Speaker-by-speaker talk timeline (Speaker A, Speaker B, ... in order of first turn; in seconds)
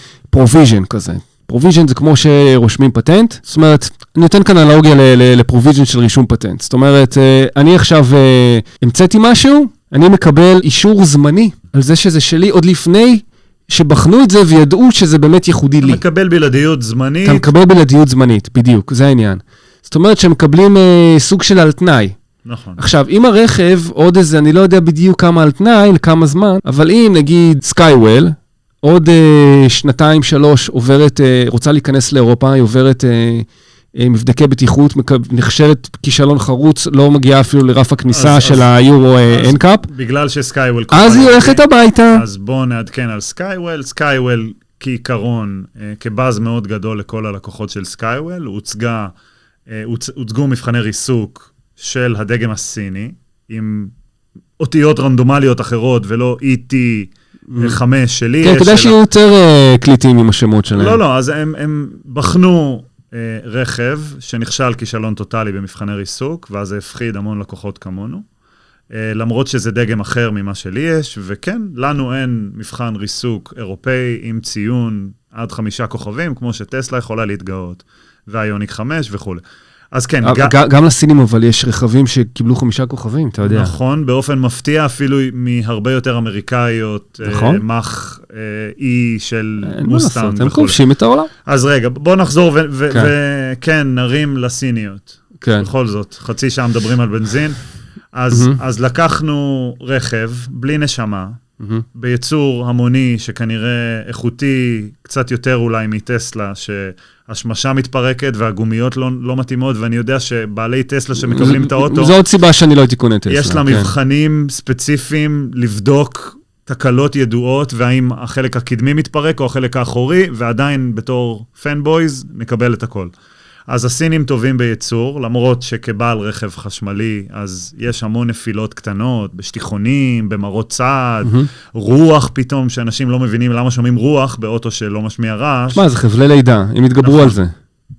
Speaker A: 0.3-16.0, 17.2-22.1, 22.8-39.9, 40.9-42.2, 57.5-57.8, 58.4-61.0, 80.2-83.7, 87.2-87.6, 89.6-91.3, 95.4-95.7, 98.3-98.6, 101.6-101.8, 111.2-113.9, 131.2-131.5, 135.7-137.5
Speaker B: 15.8-17.5, 22.4-22.8, 38.1-38.7, 39.3-49.1, 49.7-53.9, 54.6-59.0, 60.7-68.2, 68.9-79.4, 79.9-80.6, 83.4-90.8, 91.5-97.6, 98.1-101.4, 102.0-112.2, 113.3-123.1, 123.7-135.8, 137.0-137.4